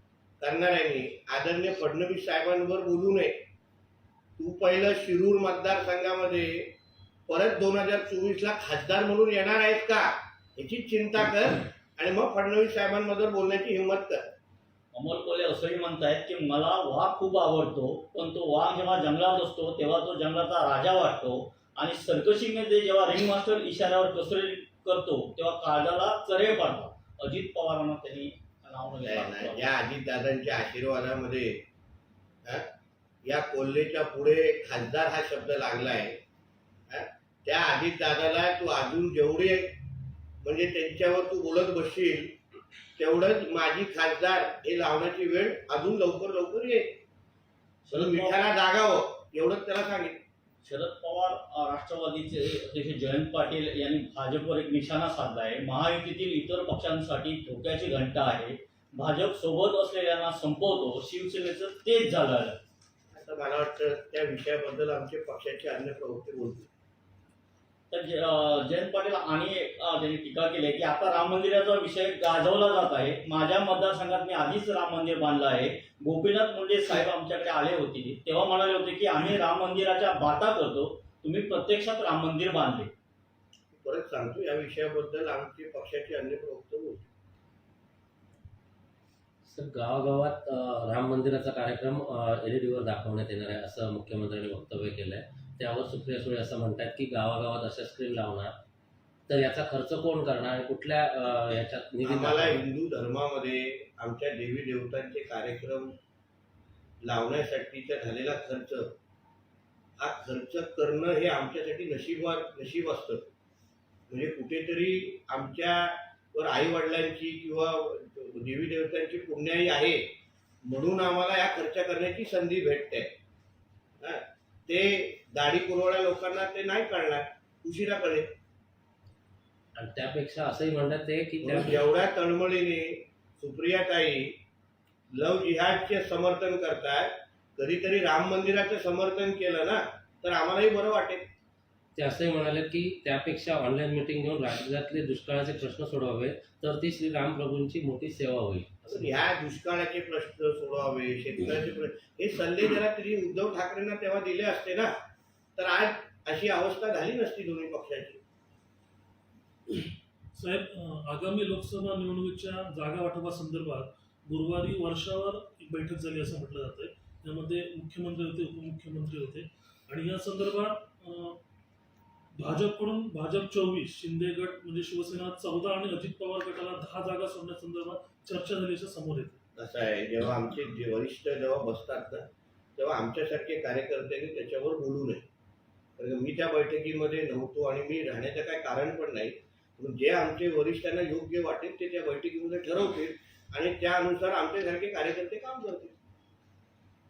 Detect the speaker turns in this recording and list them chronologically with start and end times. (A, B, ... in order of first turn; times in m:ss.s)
0:00.4-0:03.3 A
0:04.4-0:06.7 A
0:07.3-0:14.3 A
0:14.9-0:29.7 B
0:29.0-0:31.6 A
0:33.2-0:36.2 A
0:36.9-0:39.8 A
0:40.4-0:42.4 A
0:43.0-0:47.0 A
0:47.8-0:48.4 B
0:47.9-0:50.2 A
0:50.6-1:02.6 B
1:03.1-1:06.7 A
1:07.9-1:22.9 B
1:23.7-1:27.1 A
1:29.4-1:38.5 C
1:39.3-1:42.6 C
1:42.0-1:46.0 A
1:47.0-1:48.9 A
1:50.0-1:53.3 A
1:54.1-2:00.0 A
2:00.6-2:03.1 A
2:04.0-2:08.3 A
2:09.8-2:11.9 C
2:11.4-2:14.4 A
2:15.1-2:21.2 A
2:22.0-2:29.0 C
2:28.9-2:34.9 A
2:35.6-2:38.2 A
2:39.8-2:51.4 D
2:52.4-2:59.4 D
2:59.6-3:05.2 A
3:06.0-3:15.9 A